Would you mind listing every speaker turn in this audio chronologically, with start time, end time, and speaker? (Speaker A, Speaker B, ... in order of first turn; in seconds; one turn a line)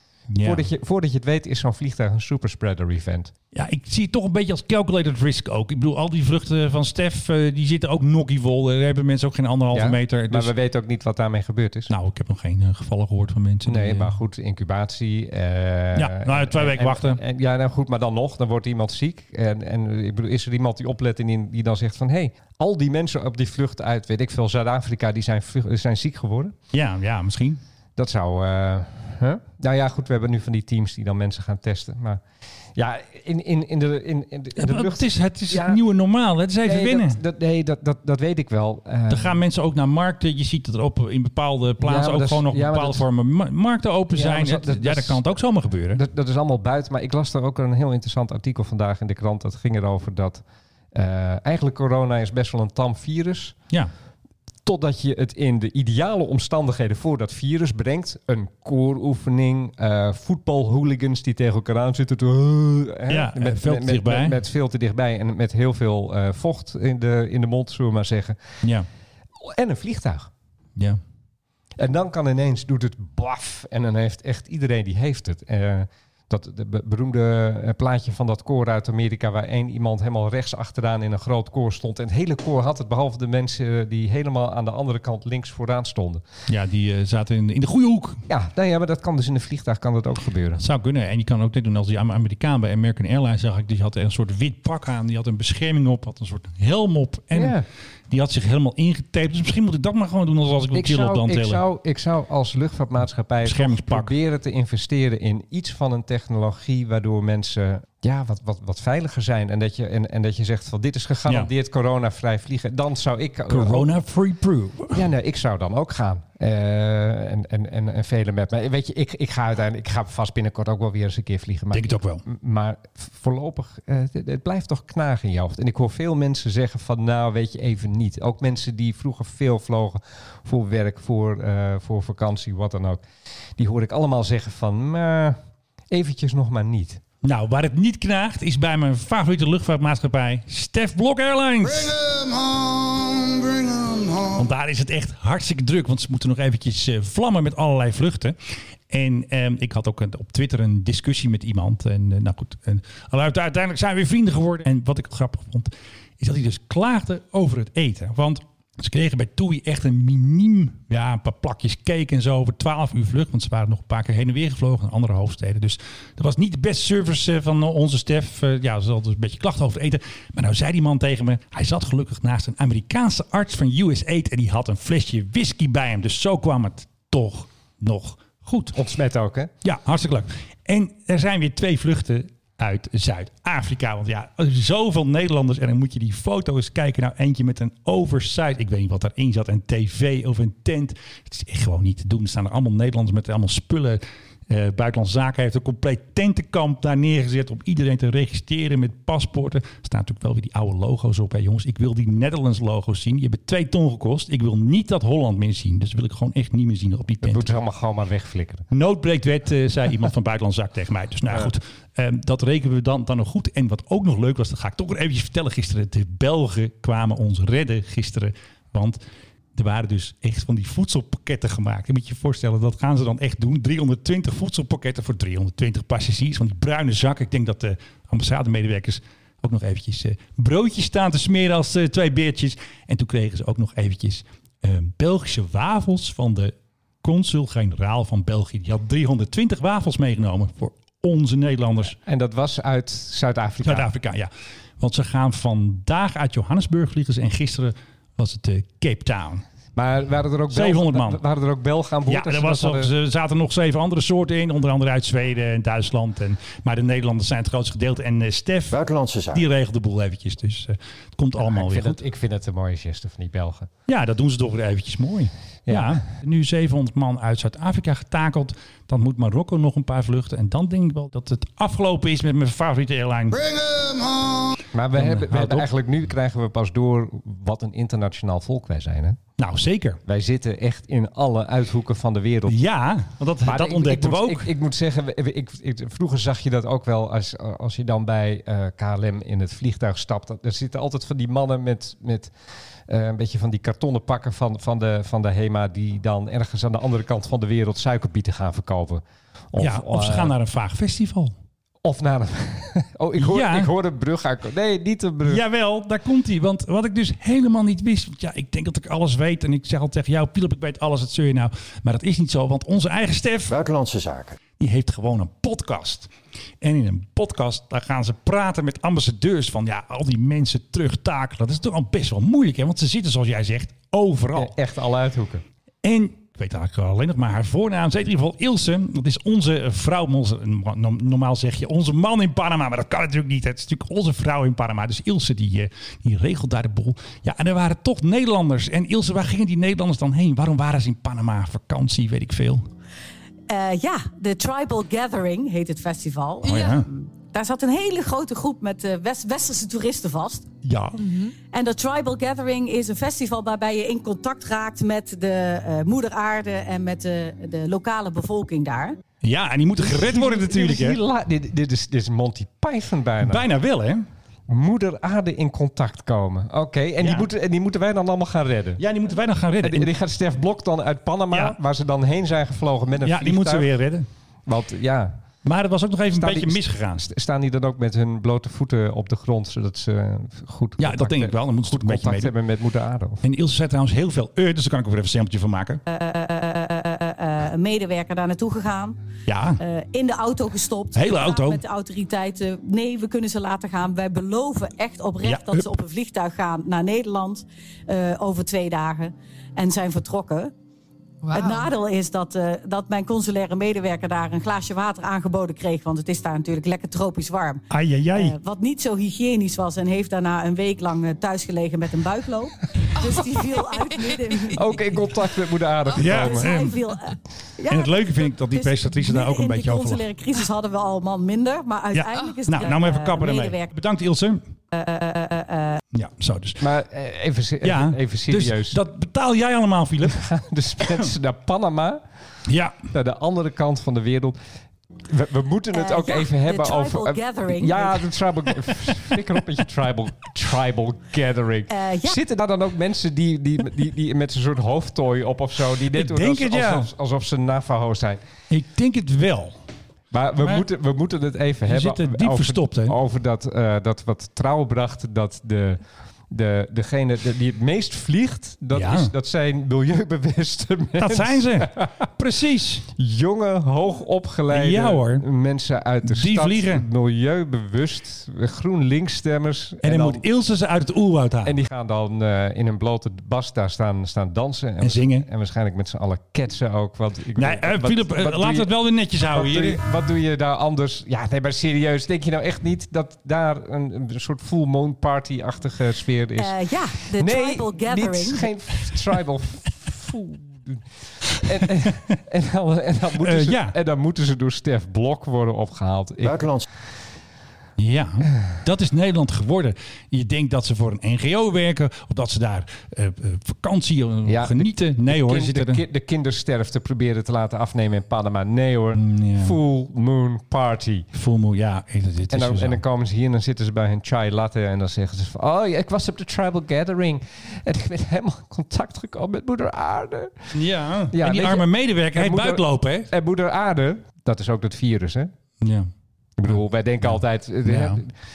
Speaker A: 0.3-0.7
Speaker B: 0.4-3.3
Speaker A: 3.5-10.5
Speaker B: 9.7-11.9
Speaker A: 11.9-14.1
Speaker B: 13.7-26.5
Speaker A: 15.9-17.2
Speaker A: 26.7-27.6
Speaker B: 28.0-32.2
Speaker B: 32.8-35.8
Speaker A: 34.6-37.2
Speaker B: 36.6-39.4
Speaker A: 39.1-46.0
Speaker B: 41.8-43.0
Speaker B: 44.1-45.3
Speaker B: 45.9-50.4
Speaker B: 50.9-53.6
Speaker B: 54.6-68.4
Speaker A: 63.1-64.4
Speaker B: 69.4-70.3
Speaker B: 71.8-86.2
Speaker A: 86.5-88.2
Speaker B: 88.3-90.6
Speaker A: 90.6-97.5
Speaker B: 97.3-97.6
Speaker A: 98.1-101.6
Speaker B: 100.7-113.9
Speaker A: 103.4-104.1
Speaker A: 113.5-115.0
Speaker B: 114.9-133.0
Speaker A: 121.7-122.2
Speaker B: 133.6-135.4
Speaker B: 135.9-137.0
Speaker A: 137.2-142.2
Speaker A: 144.2-148.3
Speaker A: 148.9-178.8
Speaker B: 178.7-179.5
Speaker A: 179.6-207.4
Speaker B: 207.2-208.7
Speaker A: 208.7-219.0
Speaker A: 219.5-241.9
Speaker B: 241.8-243.9
Speaker A: 243.6-249.4
Speaker B: 249.8-252.9
Speaker A: 250.5-251.2
Speaker A: 252.1-258.8
Speaker C: 258.7-259.4
Speaker A: 259.3-262.0
Speaker B: 261.4-263.7
Speaker A: 263.9-273.7
Speaker B: 265.7-266.0
Speaker B: 274.7-279.2
Speaker A: 274.9-275.7
Speaker A: 279.4-280.0
Speaker B: 280.0-282.6
Speaker A: 282.4-284.5
Speaker B: 283.4-292.3
Speaker B: 292.9-300.3
Speaker A: 299.6-301.3
Speaker B: 301.8-305.4
Speaker A: 303.2-303.7
Speaker A: 305.2-313.6
Speaker C: 313.5-314.4
Speaker A: 314.6-324.5
Speaker B: 324.3-325.4
Speaker A: 325.8-342.7
Speaker D: 343.5-350.5
Speaker A: 346.4-346.9
Speaker A: 350.6-351.0
Speaker D: 351.1-358.9
Speaker A: 359.2-361.0
Speaker B: 359.8-363.4
Speaker A: 363.2-364.0
Speaker B: 364.5-368.8
Speaker A: 367.0-367.3
Speaker A: 368.8-369.9
Speaker B: 369.6-373.7
Speaker A: 371.3-371.6
Speaker A: 373.0-374.1
Speaker B: 374.5-375.2
Speaker A: 375.4-377.0
Speaker B: 376.1-383.2
Speaker A: 380.8-382.3
Speaker A: 383.2-385.8
Speaker D: 385.9-389.0
Speaker A: 389.3-389.6
Speaker D: 389.6-400.5
Speaker A: 390.9-391.6
Speaker A: 395.2-395.7
Speaker D: 401.3-414.6
Speaker A: 407.7-408.4
Speaker B: 414.5-416.5
Speaker A: 415.9-416.8
Speaker D: 416.0-423.7
Speaker A: 417.7-420.0
Speaker A: 421.9-424.5
Speaker D: 424.7-425.8
Speaker A: 425.9-426.6
Speaker B: 426.6-428.8
Speaker A: 427.6-430.2
Speaker B: 430.0-432.0
Speaker A: 432.5-432.8
Speaker B: 432.9-434.4
Speaker B: 435.1-448.2
Speaker D: 435.7-438.0
Speaker D: 441.7-442.2
Speaker A: 445.9-446.9
Speaker A: 448.5-449.6
Speaker B: 450.1-461.9
Speaker A: 451.7-452.9
Speaker A: 458.7-459.1
Speaker A: 461.0-462.8
Speaker B: 462.9-470.2
Speaker A: 464.5-465.2
Speaker A: 466.0-466.8
Speaker A: 469.8-471.6
Speaker B: 471.4-478.7
Speaker A: 474.8-475.3
Speaker A: 477.3-479.8
Speaker B: 479.3-490.8
Speaker D: 486.4-488.5
Speaker B: 491.4-496.5
Speaker A: 493.2-493.8
Speaker C: 496.2-496.6
Speaker A: 497.8-505.8
Speaker B: 504.3-511.1
Speaker A: 508.9-509.6
Speaker A: 511.1-512.8
Speaker B: 512.3-520.5
Speaker A: 520.5-523.1
Speaker B: 521.1-525.3
Speaker A: 525.6-525.9
Speaker B: 526.4-528.1
Speaker A: 526.5-528.0